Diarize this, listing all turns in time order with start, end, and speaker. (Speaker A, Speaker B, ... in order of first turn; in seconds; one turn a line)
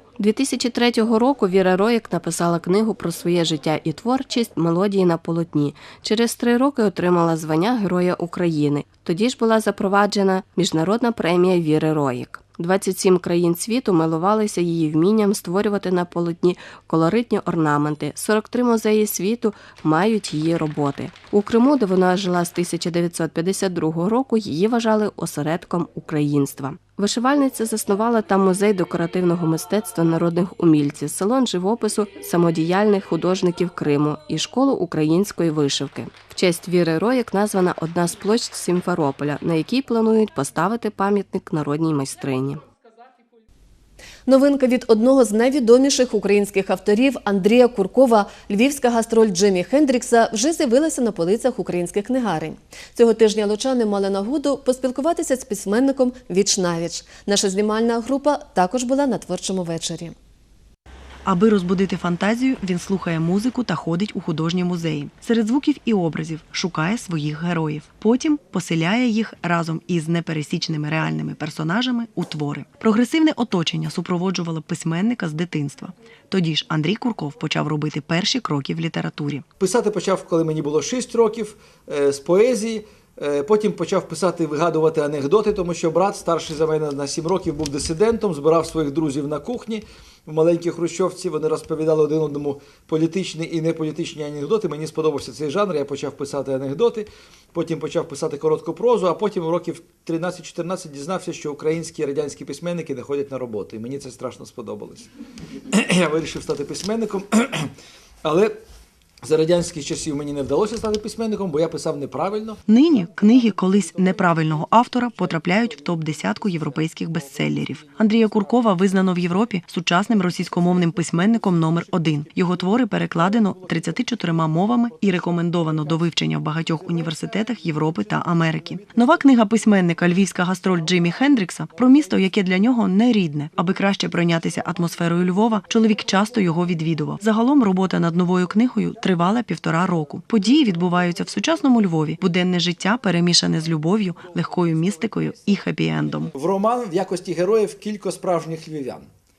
Speaker A: 0.2-42.6
Speaker B: 44.3-60.1
Speaker C: 61.3-79.4
Speaker D: 79.6-105.1
Speaker D: 105.8-107.7
Speaker D: 108.2-108.6
Speaker D: 109.2-112.6
Speaker C: 112.7-146.3
Speaker D: 146.4-149.1